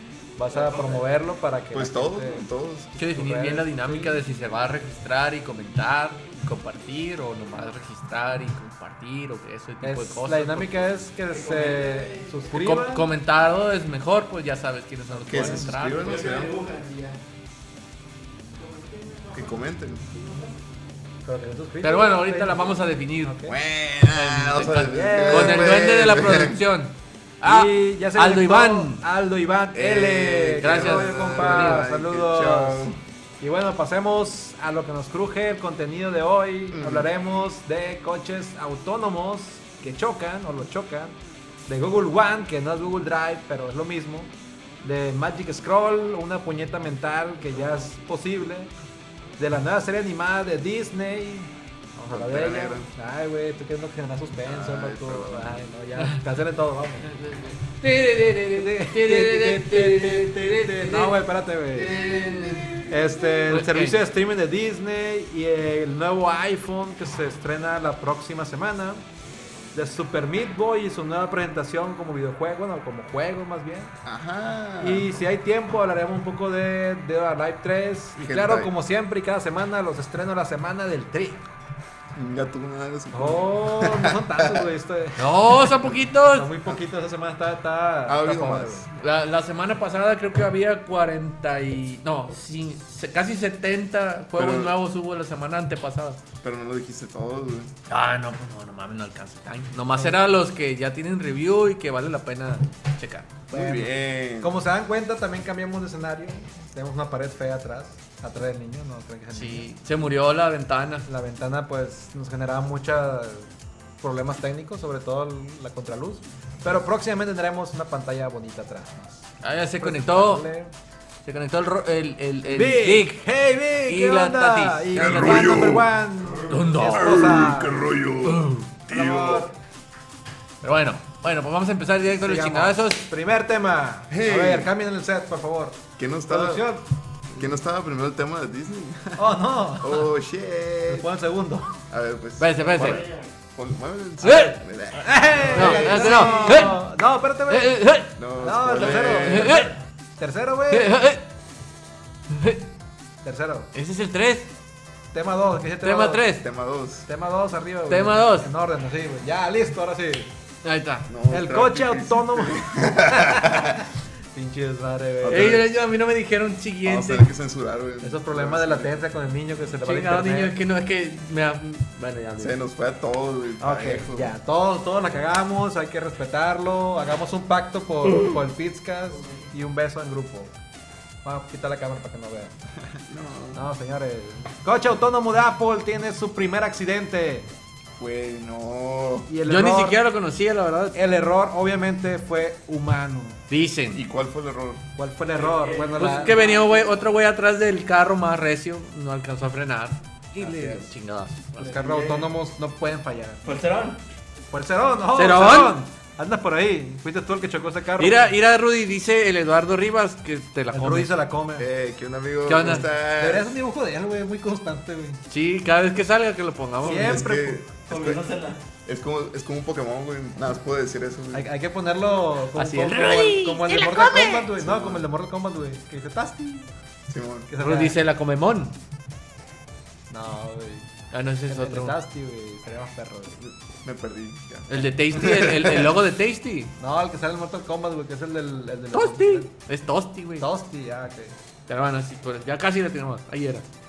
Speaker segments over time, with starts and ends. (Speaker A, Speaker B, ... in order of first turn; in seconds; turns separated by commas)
Speaker A: 0.4-4.2, Speaker B: 0.5-1.1, Speaker C: 1.7-2.9, Speaker D: 3.0-10.9, Speaker A: 9.8-13.1, Speaker B: 11.3-12.5, Speaker D: 12.5-16.2, Speaker A: 15.1-15.7, Speaker C: 15.3-16.5, Speaker B: 15.9-17.2, Speaker B: 18.6-20.6, Speaker C: 19.3-20.1, Speaker A: 21.2-23.6, Speaker D: 21.8-23.3, Speaker C: 23.4-26.6, Speaker D: 24.1-29.0, Speaker A: 24.8-25.8, Speaker A: 27.4-41.2, Speaker C: 29.7-33.0, Speaker D: 30.6-31.8, Speaker C: 36.7-37.1, Speaker A: 41.7-44.3, Speaker A: 44.8-48.7, Speaker A: 49.4-57.1, Speaker C: 52.1-52.9, Speaker C: 54.5-55.7, Speaker D: 57.0-61.1, Speaker A: 58.5-62.0, Speaker C: 61.8-63.6, Speaker D: 62.0-62.8, Speaker A: 62.9-69.0, Speaker D: 63.5-64.0, Speaker A: 69.7-73.9, Speaker C: 74.0-75.2, Speaker A: 74.8-81.4, Speaker C: 78.2-78.7, Speaker C: 82.2-84.7, Speaker A: 83.1-85.3, Speaker D: 85.2-86.5, Speaker A: 86.3-88.8, Speaker C: 88.1-88.9, Speaker D: 89.0-96.2, Speaker C: 94.3-94.8, Speaker C: 96.4-97.7, Speaker D: 97.9-103.3, Speaker A: 100.0-100.3, Speaker C: 103.5-104.6, Speaker A: 103.5-109.7, Speaker D: 109.3-111.1, Speaker A: 111.1-113.5, Speaker A: 114.0-120.7, Speaker D: 119.4-120.5, Speaker D: 121.2-123.1, Speaker A: 122.4-127.8, Speaker D: 123.9-125.7, Speaker C: 125.0-129.5, Speaker D: 126.5-127.4, Speaker D: 128.2-128.7, Speaker A: 128.9-129.5, Speaker D: 130.6-133.0, Speaker A: 132.1-136.8, Speaker C: 134.1-134.7, Speaker C: 136.0-136.7, Speaker C: 137.3-139.3, Speaker A: 139.2-140.1, Speaker C: 139.8-141.1, Speaker A: 140.9-141.8, Speaker C: 141.9-146.7, Speaker D: 142.4-143.0, Speaker B: 142.7-143.3, Speaker D: 144.2-144.6, Speaker A: 144.3-147.8, Speaker D: 145.5-146.8, Speaker D: 147.5-148.2, Speaker C: 148.2-149.7, Speaker A: 148.4-150.9, Speaker D: 149.1-149.7, Speaker D: 150.7-151.2, Speaker D: 152.3-152.7, Speaker A: 153.2-153.7, Speaker D: 153.7-154.5, Speaker A: 155.1-156.2, Speaker D: 155.8-156.5, Speaker C: 156.4-157.1, Speaker A: 157.1-160.3, Speaker D: 157.9-158.5, Speaker D: 160.6-161.1, Speaker C: 161.1-163.8, Speaker A: 161.3-163.8, Speaker A: 164.3-165.6, Speaker C: 165.2-165.8, Speaker D: 165.3-167.3, Speaker C: 166.8-169.1, Speaker A: 168.0-170.6, Speaker D: 169.8-172.6, Speaker C: 172.4-174.3, Speaker A: 173.6-180.5, Speaker A: 181.2-182.5, Speaker C: 183.0-183.6, Speaker A: 183.5-187.5, Speaker C: 188.0-189.3, Speaker A: 189.3-190.0, Speaker D: 189.5-191.0, Speaker A: 190.9-193.4, Speaker D: 193.5-194.0, Speaker C: 193.9-194.8, Speaker A: 195.0-196.4, Speaker B: 195.3-197.1, Speaker D: 196.0-201.7, Speaker A: 200.4-200.9, Speaker A: 201.6-203.4, Speaker B: 201.6-202.3, Speaker B: 203.4-204.0, Speaker A: 204.5-208.2, Speaker D: 205.1-205.8, Speaker D: 208.0-211.2, Speaker A: 210.7-211.7, Speaker C: 211.6-213.6, Speaker D: 212.5-212.9, Speaker A: 212.6-215.2, Speaker D: 215.3-217.2, Speaker A: 216.8-217.6, Speaker C: 216.8-218.2, Speaker B: 217.9-218.6, Speaker C: 218.9-221.5, Speaker A: 221.3-226.7, Speaker D: 222.6-224.5, Speaker C: 224.6-225.0, Speaker C: 227.1-227.5, Speaker A: 227.5-228.0, Speaker D: 227.6-228.8, Speaker A: 230.1-231.0, Speaker D: 231.1-232.0, Speaker A: 231.5-233.5, Speaker C: 233.8-236.0, Speaker D: 234.7-236.7, Speaker A: 236.8-239.5, Speaker D: 238.9-240.5, Speaker A: 240.4-241.4, Speaker D: 241.7-243.7